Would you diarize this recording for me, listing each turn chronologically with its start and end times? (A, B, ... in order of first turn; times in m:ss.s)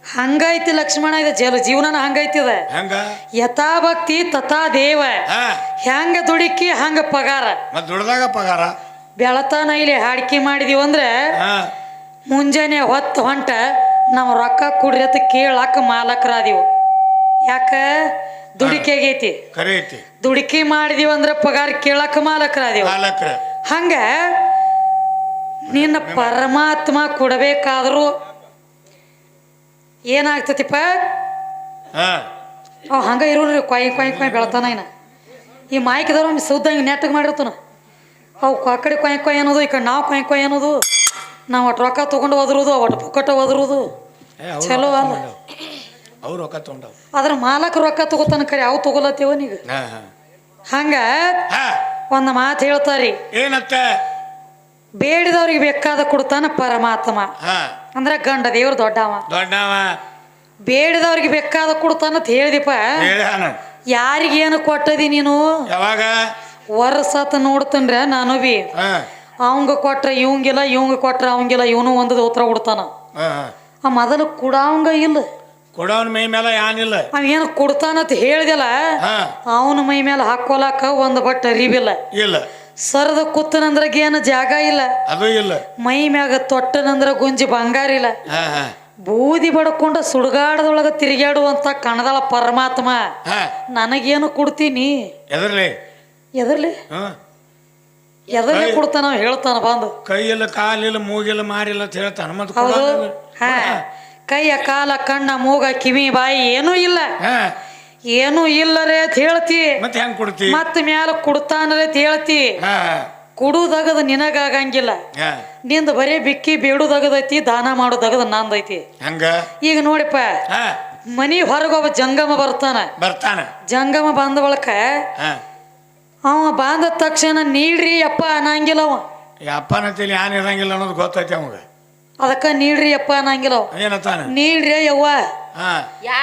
0:00.1-0:02.6 A
0:02.7-0:03.2 B
0:03.4-0:05.2 A
0:05.3-0:05.6 B
0:05.8-0:07.6 A
0:07.7-0:08.8 B
0:09.2-0:11.4 A
0:11.4-0:11.7 B
0:12.3-0:16.7 A
0:17.4-0:19.4 A
0:18.6-0:18.9 B
0:19.5-0:20.0 B
0:20.2-0:22.9 A
0:22.8-0:23.4 B
0:23.7-0:24.4 A
0:25.6-0:28.1 A
0:25.7-0:26.5 B
0:30.1-0:31.1 A
0:31.9-0:32.3 B
0:32.9-0:34.9 A
0:34.0-0:34.7 B
0:35.7-0:37.6 A
0:38.4-0:40.8 A
0:41.5-0:43.9 A
0:44.4-0:45.4 B
0:44.6-0:45.2 A
0:46.2-0:46.9 B
0:47.1-0:49.6 A
0:49.7-0:50.1 B
0:50.7-0:51.4 A
0:51.5-0:51.8 B
0:52.1-0:53.2 A
0:53.3-0:54.0 B
0:55.0-0:57.3 A
0:57.4-0:57.8 B
0:58.0-0:59.2 A
0:59.3-1:00.0 B
1:00.6-1:03.1 A
1:03.0-1:03.6 B
1:03.9-1:05.7 A
1:05.7-1:06.3 B
1:06.7-1:08.7 A
1:08.8-1:09.1 B
1:09.4-1:12.9 A
1:13.2-1:13.5 B
1:13.8-1:15.3 A
1:15.7-1:17.1 B
1:17.1-1:19.0 A
1:19.0-1:19.4 B
1:19.5-1:22.0 A
1:22.1-1:22.5 B
1:22.8-1:25.0 A
1:25.1-1:25.6 B
1:25.8-1:28.2 A
1:28.3-1:28.7 B
1:29.1-1:33.1 A
1:33.2-1:33.5 B
1:33.7-1:35.1 A
1:35.3-1:35.7 B
1:36.4-1:36.8 A
1:36.9-1:37.2 B
1:38.3-1:39.9 A
1:38.5-1:38.8 B
1:40.0-1:43.8 B
1:42.6-1:47.1 A
1:47.2-1:47.6 B
1:48.1-1:49.8 A
1:49.8-1:50.6 B
1:50.4-1:52.6 A
1:52.6-1:53.1 B
1:53.4-1:55.0 A
1:55.1-1:55.4 B
1:55.6-1:58.9 A
1:59.0-1:59.5 B
1:59.6-2:00.4 A
2:00.5-2:00.8 B
2:01.1-2:02.9 A
2:03.0-2:03.5 B
2:03.7-2:05.1 A
2:05.2-2:05.4 B
2:06.2-2:09.0 A
2:09.4-2:11.6 B
2:12.2-2:13.7 A
2:13.7-2:14.3 B
2:14.2-2:15.3 A
2:15.5-2:15.9 B